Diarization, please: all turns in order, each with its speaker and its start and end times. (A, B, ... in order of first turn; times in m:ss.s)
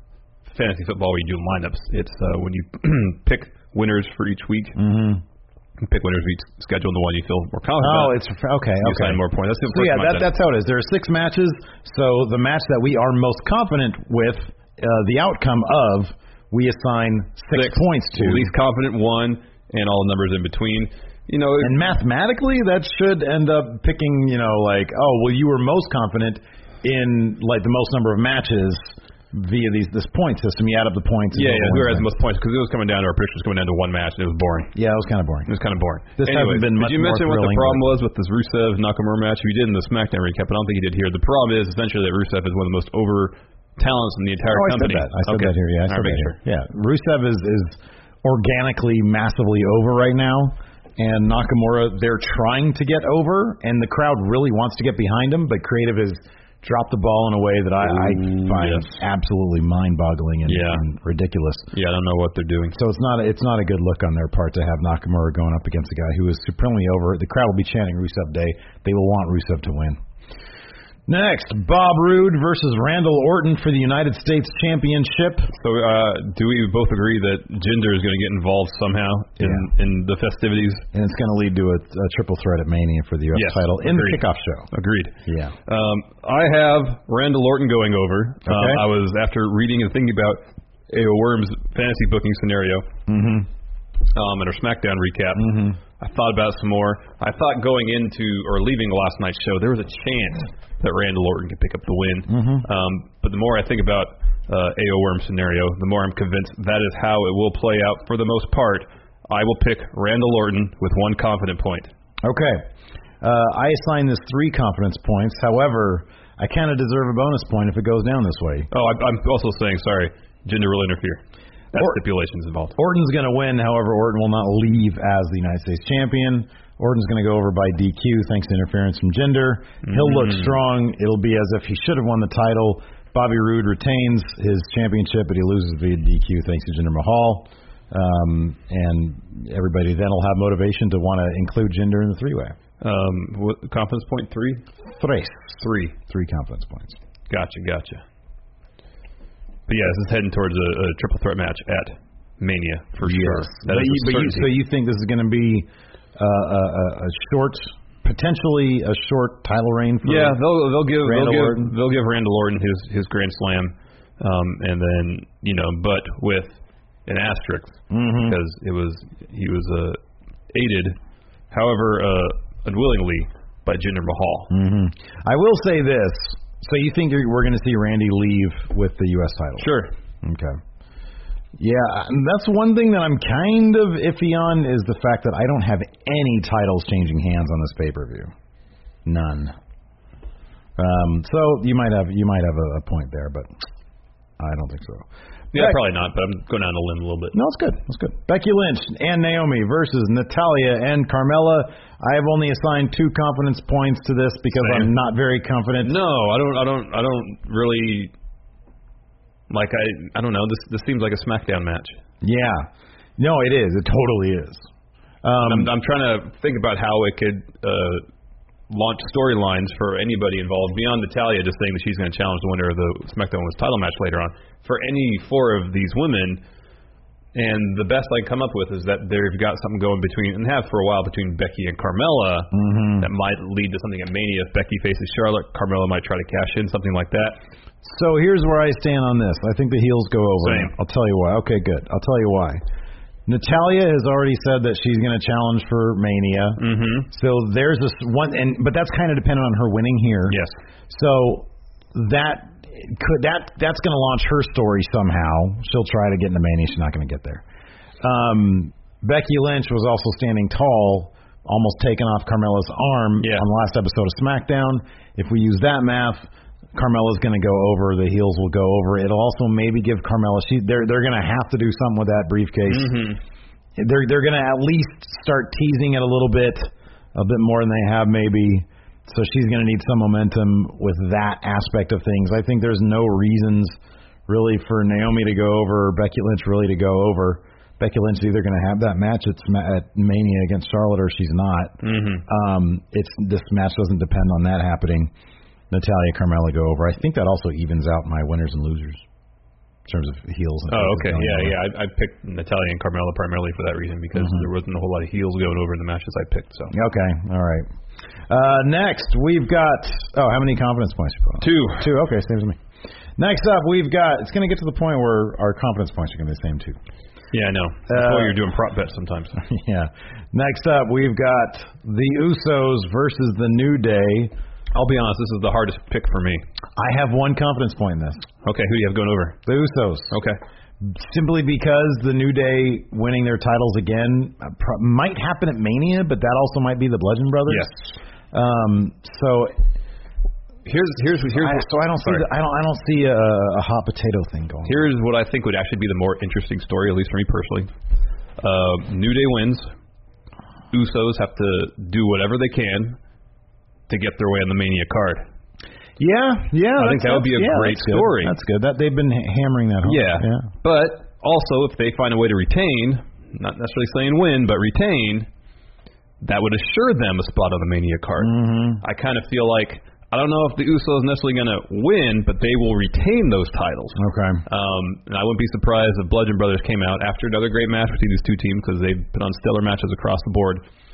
0:00.5-0:04.8 A
0:04.8-0:05.2 B
0:05.8-0:08.2 A
0:07.8-0:18.5 B
0:08.8-0:10.3 A
0:17.5-0:21.8 A
0:21.6-0:32.1 B
0:31.3-0:34.8 A
0:34.7-0:35.5 B
0:35.5-0:46.4 A
0:36.2-0:37.9 B
0:44.5-1:01.7 B
0:58.0-0:59.0 A
1:00.4-1:00.8 A
1:01.7-1:02.8 A
1:02.7-1:10.0 B
1:11.1-1:15.5 B
1:15.6-1:20.8 A
1:19.4-1:19.7 B
1:20.9-1:24.7 B
1:23.3-1:25.1 A
1:25.2-1:25.6 B
1:25.7-1:32.9 A
1:28.4-1:28.8 B
1:33.1-1:33.5 B
1:34.1-1:51.9 A
1:35.4-1:35.8 B
1:42.3-1:42.7 B
1:52.2-1:52.6 B
1:53.2-1:58.7 B
1:58.7-2:01.2 A
2:01.7-2:02.8 A
2:01.7-2:02.0 B
2:02.8-2:22.6 B
2:09.8-2:10.5 A
2:22.8-2:24.7 A
2:24.9-2:25.6 B
2:25.6-2:25.9 A
2:26.1-2:27.0 B
2:27.3-2:28.0 A
2:29.7-2:34.5 A
2:33.0-2:40.4 B
2:40.0-2:50.0 A
2:41.0-2:41.7 B
2:47.9-2:48.4 B
2:50.5-2:51.0 A
2:51.5-2:54.5 A
2:54.5-2:59.7 B
2:59.6-2:59.9 A
3:00.2-3:00.6 B
3:01.6-3:08.3 B
3:09.0-3:09.6 B
3:10.8-3:13.5 B
3:14.4-3:15.8 B
3:15.5-3:17.4 A
3:17.3-3:25.9 B
3:24.5-3:24.9 A
3:25.8-3:28.1 A
3:29.5-3:32.0 A
3:32.2-3:34.7 B
3:35.2-3:35.7 B
3:35.4-3:38.1 A
3:38.7-3:46.4 A
3:47.3-3:57.4 A
3:52.5-3:53.1 B
3:57.8-4:02.6 B
4:00.4-4:00.7 A
4:03.2-4:17.4 B
4:06.6-4:07.1 A
4:18.0-4:33.0 B
4:23.2-4:23.4 A
4:32.7-4:33.2 A
4:33.8-4:55.1 B
4:51.8-4:52.2 A
4:55.7-4:59.0 B
4:59.9-5:01.6 B
5:00.7-5:06.7 A
5:04.1-5:04.4 B
5:06.7-5:07.7 B
5:08.3-5:12.6 B
5:11.4-5:11.9 A
5:13.2-5:16.8 B
5:17.3-5:19.4 A
5:17.9-5:18.4 B
5:19.4-5:24.3 B
5:24.7-5:26.4 A
5:26.8-5:28.3 B
5:28.4-5:29.4 A
5:29.5-5:30.2 B
5:30.1-5:30.4 A
5:30.8-5:39.5 B
5:40.6-5:42.2 A
5:41.4-5:44.9 B
5:44.6-5:47.7 A
5:48.4-5:49.7 A
5:50.7-5:53.0 A
5:53.9-5:55.2 A
5:56.0-6:00.5 B
5:56.8-5:58.3 A
5:59.8-6:05.3 A
6:06.2-6:20.6 A
6:08.2-6:08.8 B
6:14.0-6:14.4 B